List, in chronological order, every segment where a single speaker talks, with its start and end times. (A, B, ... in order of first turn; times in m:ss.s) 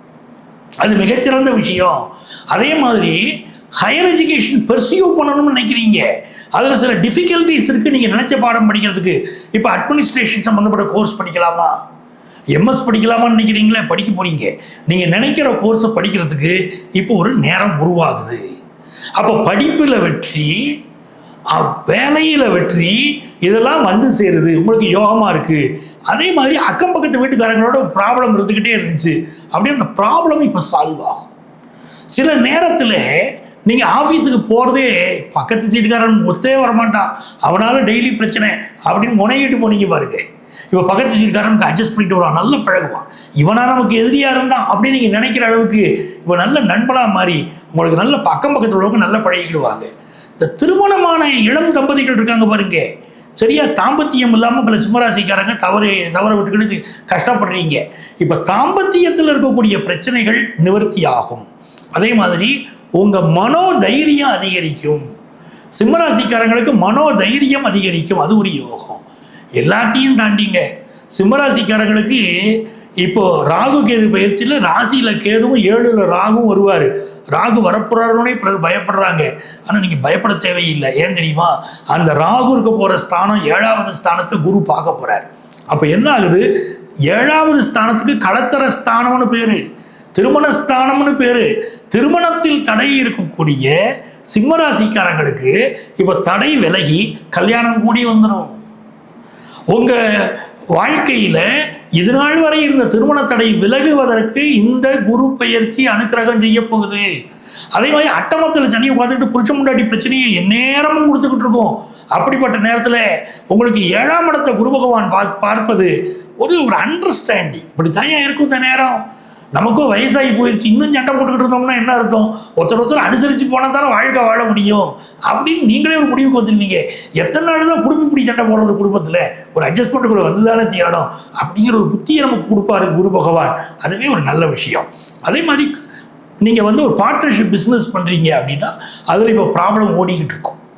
0:00.8-0:03.2 A
0:03.8-0:06.0 A
0:06.6-0:11.8 A
0:12.6-0:18.4 A
0:19.2-0:20.6 A
0:21.5-0:31.3 A
0:32.1-0:52.8 A
0:53.4-1:05.1 A
1:05.8-1:09.0 A
1:09.6-1:26.5 A
1:27.1-1:29.6 A
1:30.2-1:33.8 A
1:34.3-1:38.5 A
1:39.7-1:47.1 A
1:47.8-1:59.0 A
1:59.6-2:15.8 A
2:16.4-2:20.6 A